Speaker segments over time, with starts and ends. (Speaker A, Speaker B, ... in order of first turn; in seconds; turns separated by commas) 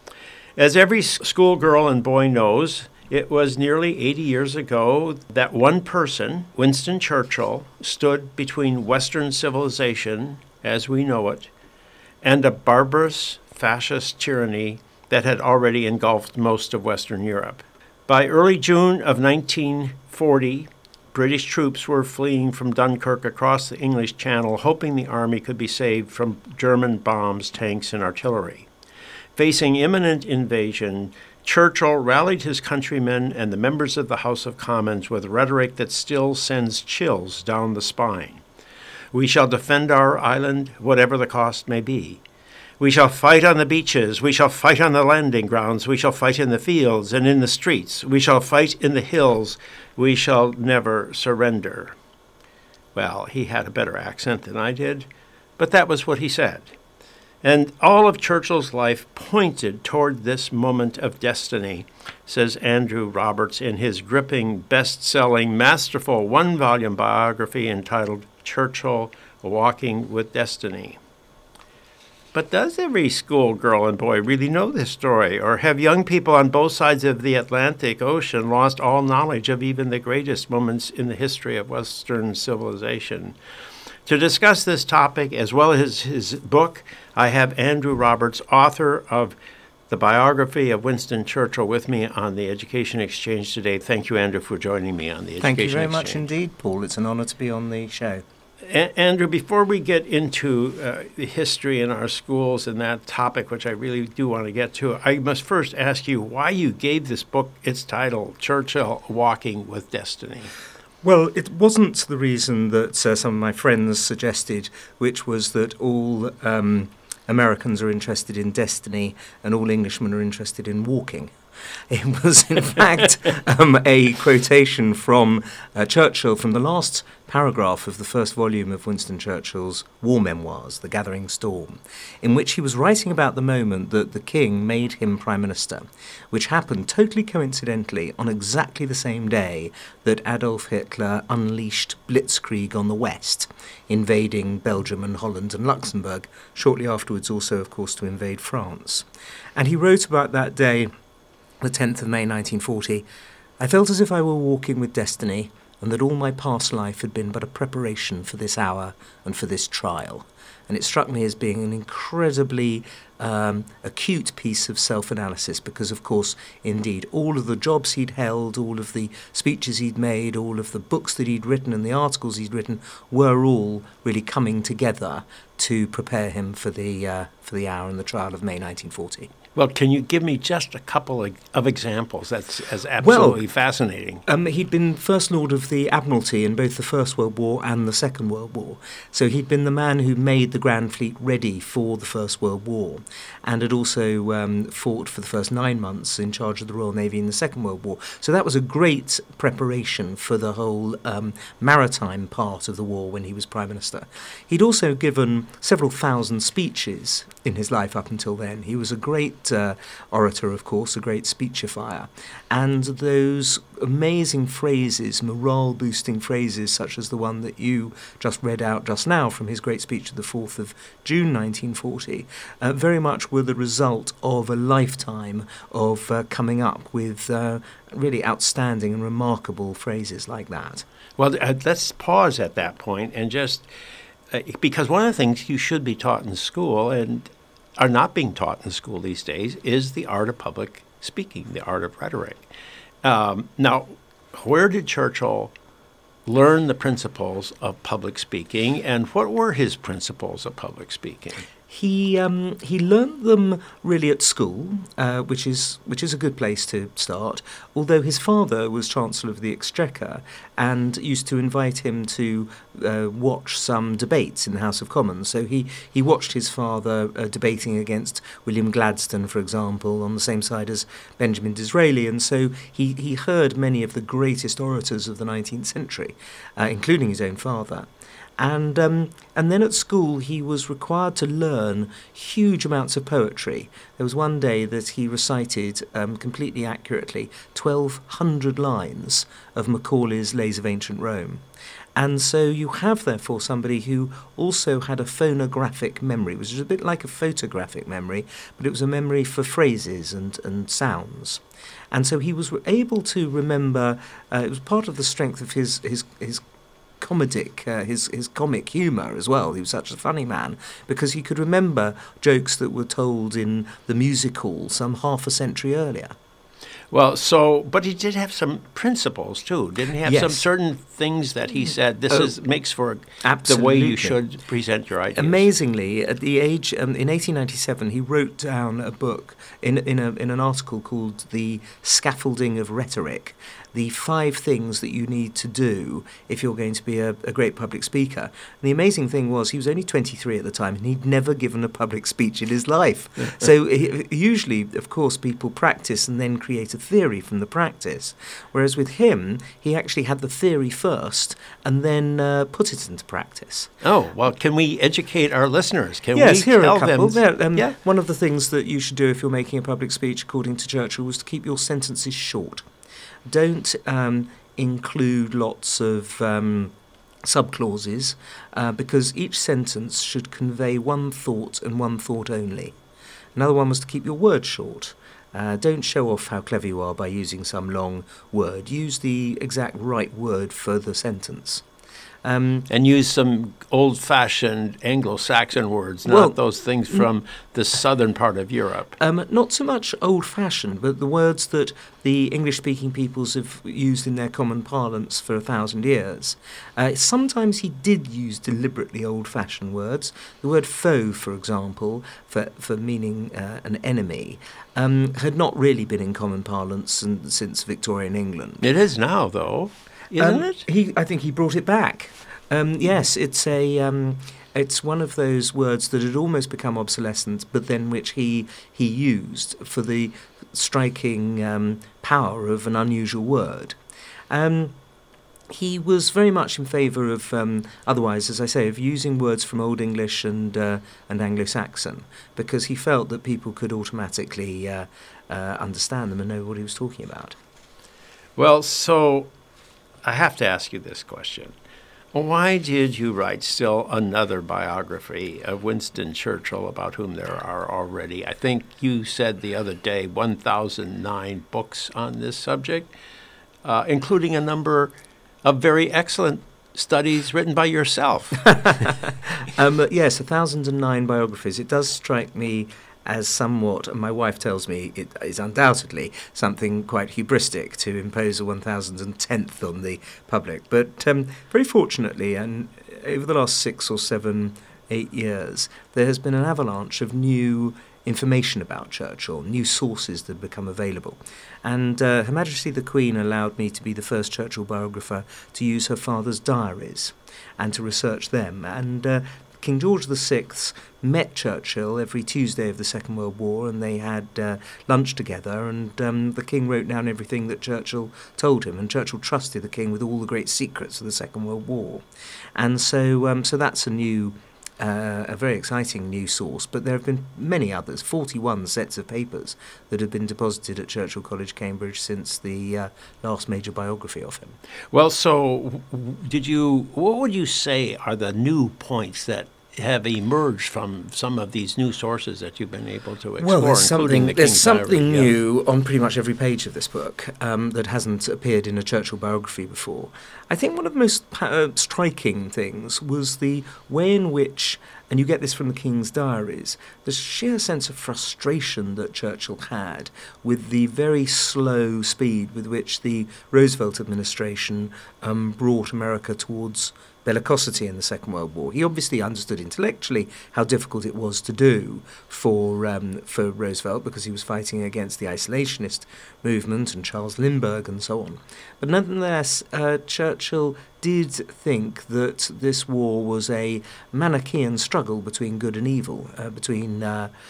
Speaker A: 0.6-11.5, Speaker A: 12.2-28.7, Speaker A: 29.4-38.4, Speaker A: 39.1-42.2, Speaker A: 42.8-52.0, Speaker A: 53.0-56.7, Speaker A: 57.4-71.0, Speaker A: 72.3-83.4, Speaker A: 84.1-89.4, Speaker A: 89.9-96.2, Speaker B: 95.4-98.2, Speaker A: 98.6-110.5, Speaker B: 111.0-121.4, Speaker B: 121.9-150.9, Speaker B: 151.6-153.1, Speaker B: 153.6-179.3, Speaker A: 179.6-184.2, Speaker B: 183.0-183.4, Speaker B: 184.3-230.8, Speaker A: 231.2-233.7, Speaker A: 234.3-242.5, Speaker A: 243.0-245.5, Speaker A: 246.3-251.5, Speaker B: 251.7-291.4, Speaker B: 292.0-306.4, Speaker B: 307.0-316.1, Speaker A: 316.9-325.5, Speaker B: 320.0-320.4, Speaker B: 323.2-324.2, Speaker B: 325.2-353.7, Speaker A: 353.8-357.8, Speaker B: 356.1-362.7, Speaker B: 363.3-372.8, Speaker B: 373.4-381.6, Speaker B: 382.2-382.7, Speaker A: 382.7-389.0, Speaker B: 386.1-386.4, Speaker B: 389.0-408.7, Speaker A: 408.6-410.6, Speaker B: 410.2-423.8, Speaker B: 424.3-424.8, Speaker B: 425.5-437.4, Speaker A: 438.4-439.3, Speaker A: 440.0-441.6, Speaker A: 442.1-452.9, Speaker A: 453.6-458.6, Speaker B: 458.5-502.0, Speaker B: 502.6-514.6, Speaker A: 514.9-525.3, Speaker B: 523.4-567.3